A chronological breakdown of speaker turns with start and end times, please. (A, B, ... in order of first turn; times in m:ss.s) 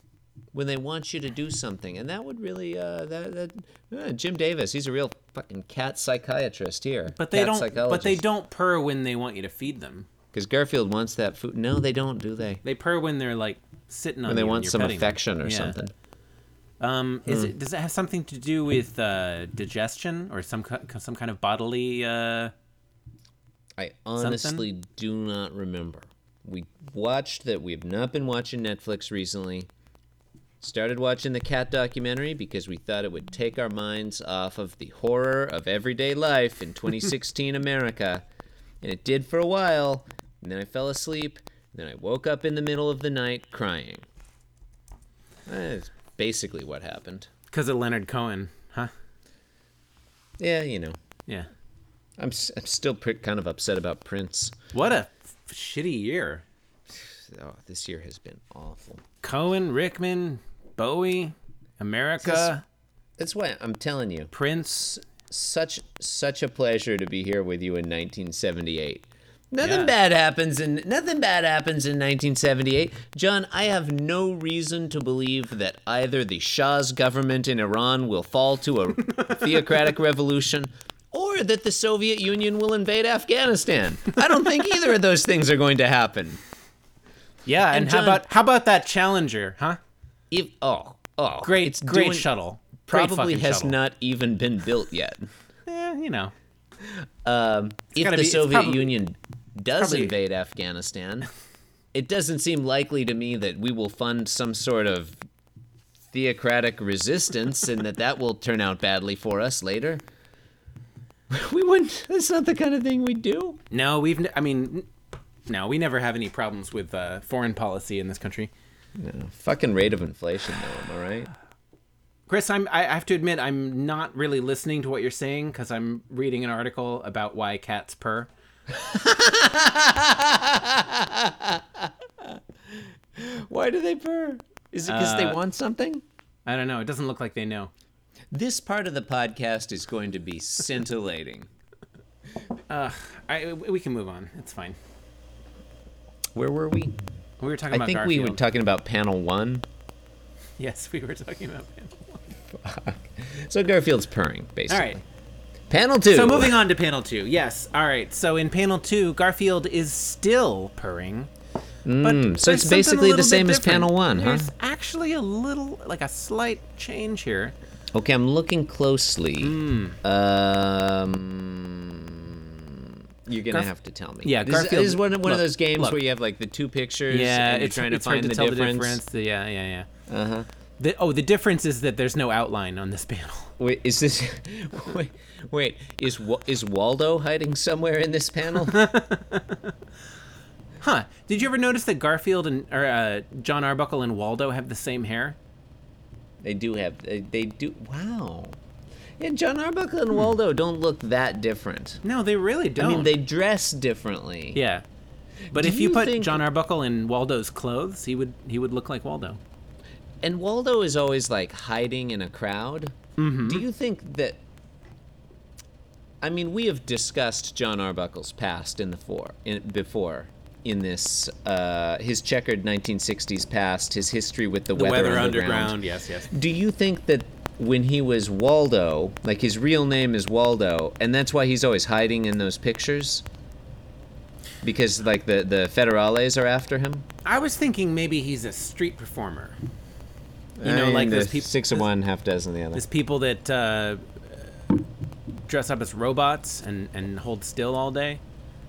0:00.5-0:08.2 A
0:07.1-0:10.1 B
0:10.3-0:12.6 A
0:12.6-0:15.8 B
0:14.3-0:15.9 A
0:16.8-0:22.5 B
0:17.3-0:17.5 A
0:23.8-0:29.7 A
0:24.2-0:24.7 B
0:30.6-0:38.2 A
0:38.8-0:44.1 A
0:45.5-0:47.3 A
0:47.5-0:48.9 B
0:50.4-0:51.0 A
0:52.2-0:54.6 A
0:54.7-0:56.4 B
0:56.9-0:59.0 A
0:59.2-1:02.6 B
1:02.2-1:02.6 A
1:03.2-1:26.4 A
1:04.3-1:04.9 B
1:09.6-1:09.9 B
1:27.5-1:29.8 B
1:27.7-1:28.3 A
1:30.3-1:32.3 A
1:31.4-1:33.8 B
1:32.9-1:35.3 A
1:35.7-1:36.3 B
1:36.9-1:41.3 A
1:38.0-1:38.9 B
1:39.8-1:40.1 B
1:41.9-1:45.2 A
1:46.1-1:50.0 A
1:51.3-1:53.6 A
1:53.7-1:54.9 B
1:55.5-1:58.5 B
1:59.0-2:01.3 A
2:02.3-2:08.3 B
2:08.7-2:12.4 A
2:13.2-2:16.0 A
2:14.9-2:15.4 B
2:16.5-2:17.7 B
2:18.3-2:21.5 A
2:22.7-2:24.8 B
2:26.4-2:27.0 A
2:27.4-2:28.4 B
2:27.7-2:29.7 A
2:30.6-2:32.2 B
2:32.5-2:35.0 A
2:34.7-2:35.0 B
2:35.7-2:36.6 A
2:36.1-2:41.3 B
2:41.9-2:44.5 A
2:42.0-2:47.6 B
2:47.9-2:59.0 A
2:49.4-2:50.0 B
2:54.2-2:56.0 B
2:57.1-2:59.9 B
3:00.1-3:00.5 A
3:00.8-3:03.5 B
3:03.6-3:08.9 A
3:08.7-3:09.7 B
3:10.8-3:15.4 B
3:16.4-3:18.6 A
3:19.2-3:22.0 A
3:22.0-3:23.1 B
3:22.8-3:24.6 A
3:24.6-3:24.8 B
3:25.5-3:26.4 A
3:25.5-3:29.4 B
3:30.2-3:34.4 A
3:33.2-3:33.6 B
3:36.2-3:53.2 A
3:44.8-3:46.3 B
3:54.6-3:57.1 A
3:57.2-3:59.6 B
4:00.6-4:02.8 A
4:00.6-4:01.9 B
4:02.7-4:04.5 B
4:05.5-4:08.2 B